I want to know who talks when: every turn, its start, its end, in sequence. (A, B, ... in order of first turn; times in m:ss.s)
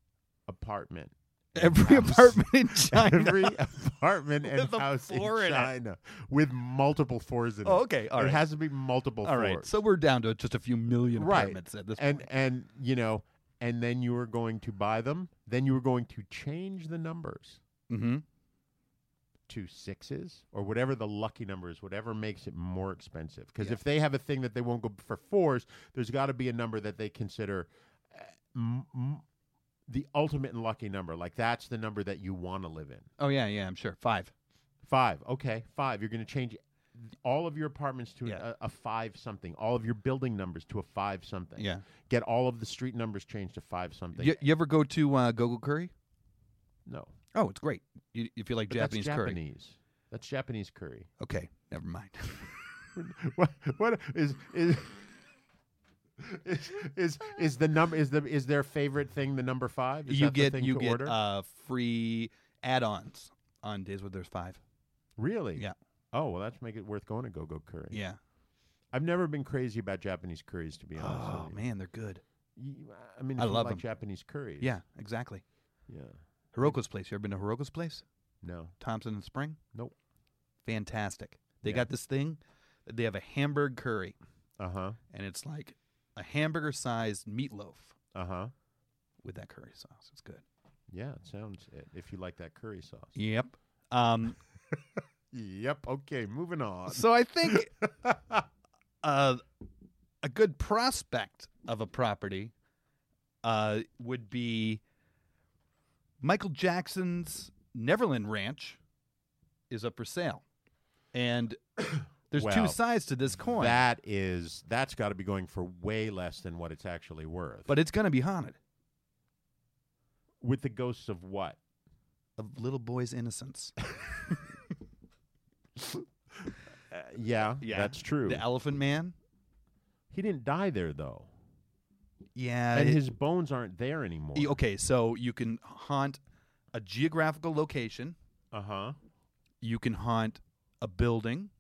0:00.5-0:09.8 A
0:01.6-0:03.6 B
0:04.5-0:05.7 B
0:07.6-0:08.4 B
0:09.2-0:12.3 B
0:11.1-0:17.6 A
0:17.9-0:18.2 B
0:19.5-0:29.2 A
0:29.9-0:33.1 A
0:33.2-0:34.3 B
0:34.8-0:44.4 A
0:41.6-0:41.8 B
0:44.2-0:45.9 B
0:46.9-0:47.1 A
0:47.3-0:49.4 B
0:48.7-0:51.1 A
0:51.2-0:52.7 B
0:53.0-0:55.1 A
0:56.2-1:01.2 A
1:00.1-1:04.6 B
1:05.2-1:08.0 A
1:07.9-1:08.2 B
1:08.9-1:11.6 A
1:11.0-1:12.2 B
1:12.6-1:14.8 A
1:13.4-1:13.8 B
1:14.6-1:15.4 B
1:15.9-1:16.8 A
1:16.5-1:18.0 B
1:18.4-1:18.8 A
1:18.8-1:19.6 B
1:20.6-1:24.2 B
1:24.6-1:25.0 A
1:25.1-1:28.0 B
1:28.1-1:28.5 A
1:29.2-1:30.4 B
1:30.9-1:33.2 A
1:33.2-1:34.4 B
1:35.3-1:38.4 A
1:36.9-1:37.7 B
1:39.0-1:39.4 B
1:40.2-1:42.5 B
1:43.4-1:44.8 B
1:46.2-1:48.8 B
1:49.7-1:50.4 B
1:51.1-1:51.6 B
1:52.2-1:53.8 B
1:52.3-1:52.8 A
1:53.4-1:57.7 A
1:57.7-1:58.6 B
2:00.4-2:01.6 A
2:02.4-2:03.7 B
2:05.8-2:08.5 A
2:07.6-2:09.2 B
2:10.1-2:11.3 A
2:12.4-2:13.0 B
2:12.7-2:14.6 A
2:14.4-2:16.2 B
2:16.7-2:18.2 B
2:18.5-2:19.0 A
2:19.6-2:21.5 B